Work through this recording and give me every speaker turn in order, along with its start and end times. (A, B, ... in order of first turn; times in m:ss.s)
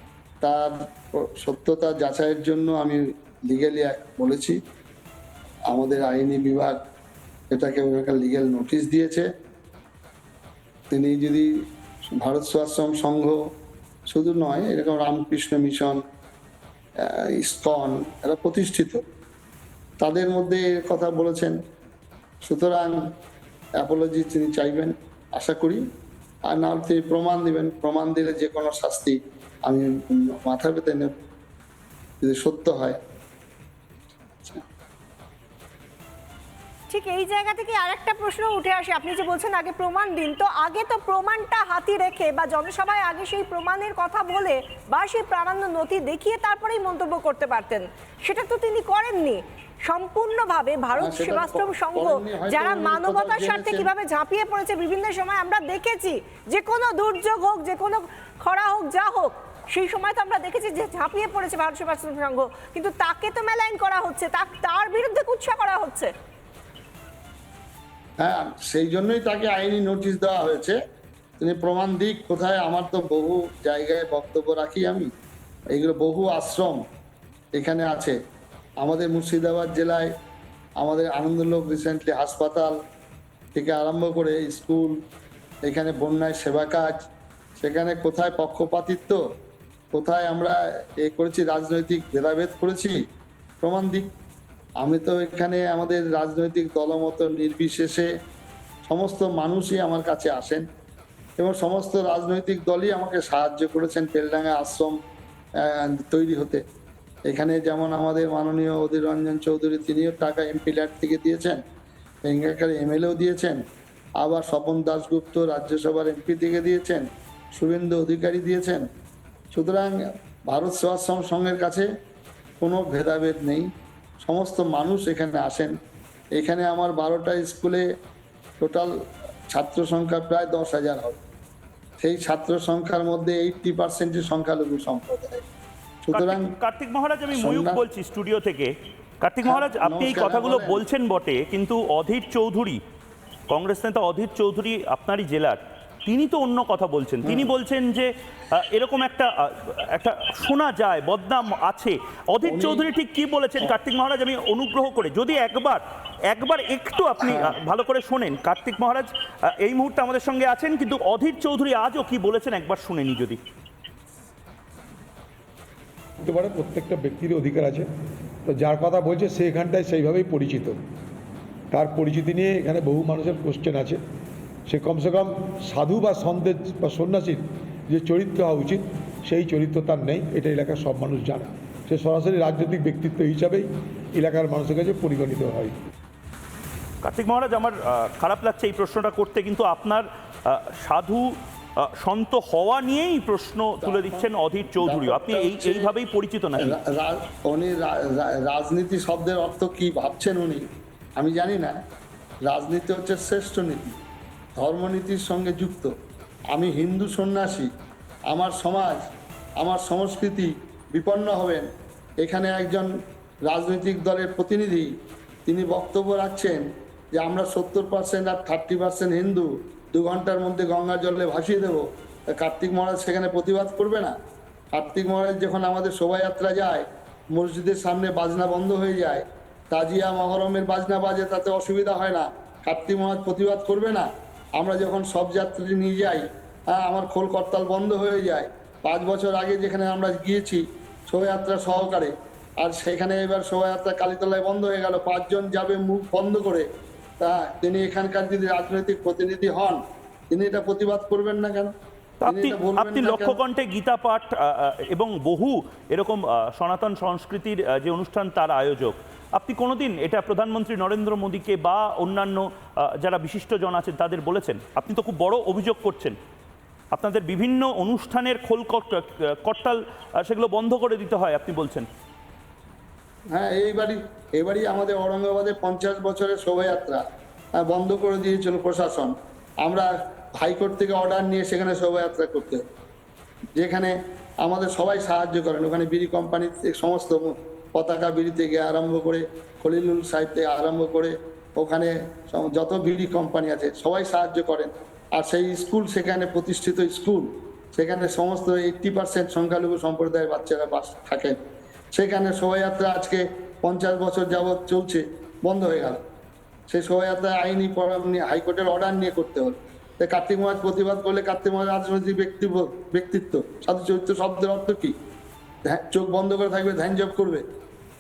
0:00.4-0:04.6 A
0:05.7-0:06.8 A
0:07.5-0:09.3 A
0:10.9-0:11.5 A
0:12.1-0:13.4 A
0:14.1-0:16.0 A
0:17.2-0:19.0 A
0:20.0-0:21.6 A
0:22.4-0:23.0 A
0:23.8-0:25.8 A
0:26.5-0:31.1 A
0:32.2-0:33.0 A
0:36.9-1:06.1 B
0:51.0-0:53.9 A
1:08.2-1:10.8 A
1:11.4-1:15.1 A
1:15.7-1:16.8 A
1:17.6-1:18.2 A
1:18.8-1:20.1 A
1:20.8-1:22.7 A
1:23.6-1:24.9 A
1:25.6-1:27.0 A
1:27.6-1:29.2 A
1:29.9-1:33.0 A
1:33.6-1:34.1 A
1:34.8-1:38.1 A
1:38.9-1:40.6 A
1:41.4-1:45.0 A
1:45.6-1:46.6 A
1:47.3-1:51.6 A
1:52.3-1:53.6 A
1:54.2-1:58.9 A
1:59.5-2:00.0 A
2:00.5-2:01.9 A
2:02.6-2:03.7 A
2:04.2-2:05.7 A
2:06.3-2:07.8 A
2:08.6-2:08.9 A
2:09.5-2:11.2 A
2:12.0-2:15.4 A
2:16.0-2:16.4 A
2:16.1-2:18.7 C
2:17.3-2:17.8 A
2:19.2-2:22.8 C
2:19.4-2:20.8 A
2:23.5-2:43.4 C
2:32.4-2:32.8 A
2:46.2-2:47.9 D
2:48.5-2:50.8 D
2:51.7-2:54.0 D
2:54.7-3:05.8 D
3:07.0-3:11.3 C
3:11.8-3:16.8 C
3:13.8-3:15.9 A
3:16.6-3:20.6 A
3:21.2-3:21.8 A
3:22.5-3:24.0 A
3:24.6-3:25.9 A
3:26.5-3:27.7 A
3:28.3-3:29.0 A
3:29.6-3:31.7 A
3:32.2-3:32.9 A
3:33.5-3:34.9 A
3:35.5-3:36.6 A
3:37.1-3:44.2 A
3:44.7-4:06.7 A
4:07.2-4:09.8 A
4:10.3-4:11.7 A
4:12.2-4:26.2 C
4:12.3-4:13.4 A
4:26.9-4:31.9 C
4:33.3-4:37.0 A
4:37.6-4:42.6 A
4:43.6-5:01.4 A
5:01.9-5:06.0 A
5:06.7-5:14.9 A
5:15.7-5:17.4 A